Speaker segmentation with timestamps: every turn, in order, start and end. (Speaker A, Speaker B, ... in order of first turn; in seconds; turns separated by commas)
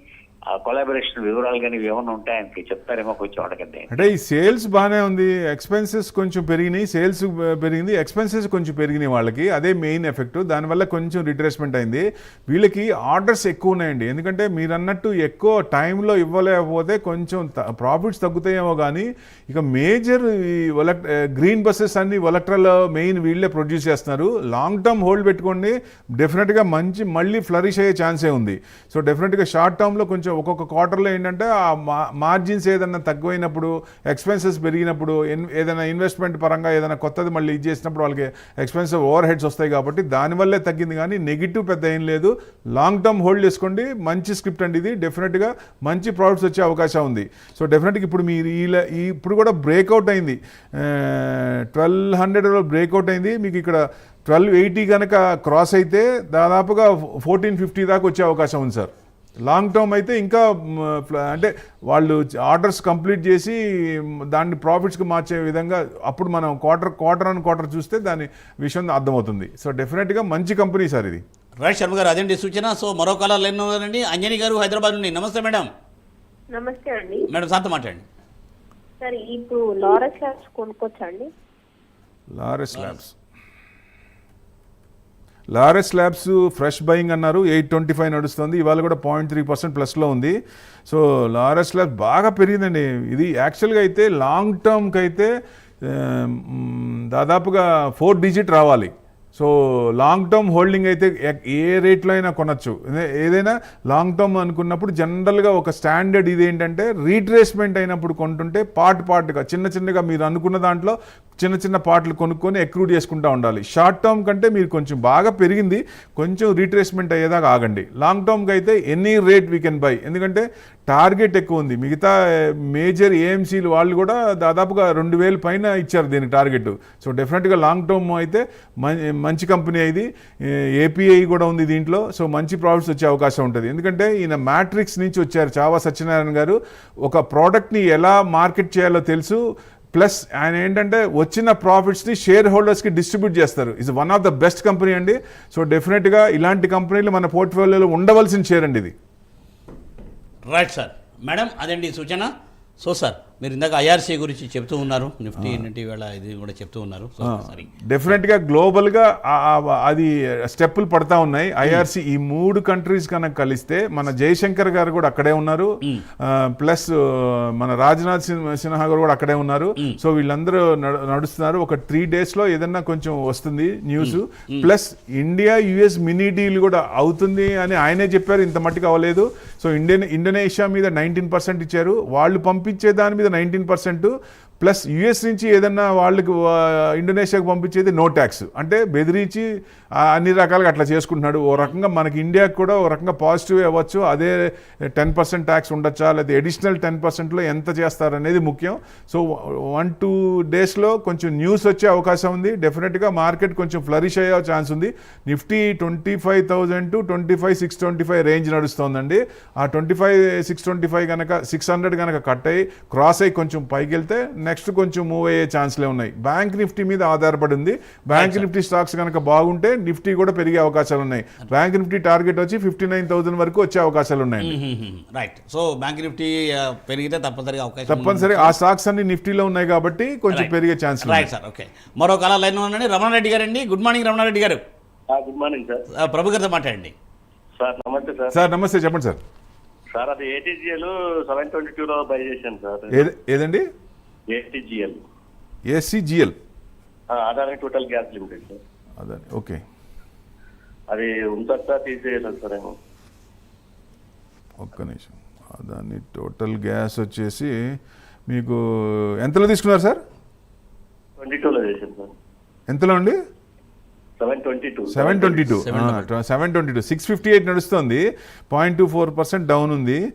Speaker A: 0.5-3.9, Speaker B: 3.9-58.9, Speaker B: 59.4-71.2, Speaker C: 71.6-75.7, Speaker D: 76.5-77.3, Speaker C: 77.3-78.0, Speaker D: 79.0-81.3, Speaker B: 82.3-83.1, Speaker C: 82.7-83.0, Speaker B: 85.5-90.3, Speaker B: 90.9-95.3, Speaker B: 95.8-139.4, Speaker B: 139.9-148.9, Speaker C: 150.5-152.3, Speaker C: 152.8-157.7, Speaker B: 157.2-189.4, Speaker C: 174.0-174.7, Speaker B: 190.0-224.6, Speaker C: 218.1-218.5, Speaker C: 224.4-228.6, Speaker B: 227.9-231.3, Speaker C: 230.3-234.6, Speaker E: 235.1-235.8, Speaker C: 235.9-236.9, Speaker E: 237.6-238.3, Speaker B: 238.3-239.2, Speaker E: 239.9-242.9, Speaker B: 242.9-243.7, Speaker E: 244.3-245.0, Speaker B: 245.7-246.3, Speaker E: 247.1-248.6, Speaker B: 249.0-249.6, Speaker E: 250.9-252.7, Speaker B: 254.6-257.5, Speaker B: 258.3-260.0, Speaker E: 261.2-262.1, Speaker B: 262.7-263.1, Speaker E: 264.2-265.5, Speaker B: 264.9-270.0, Speaker C: 265.6-266.1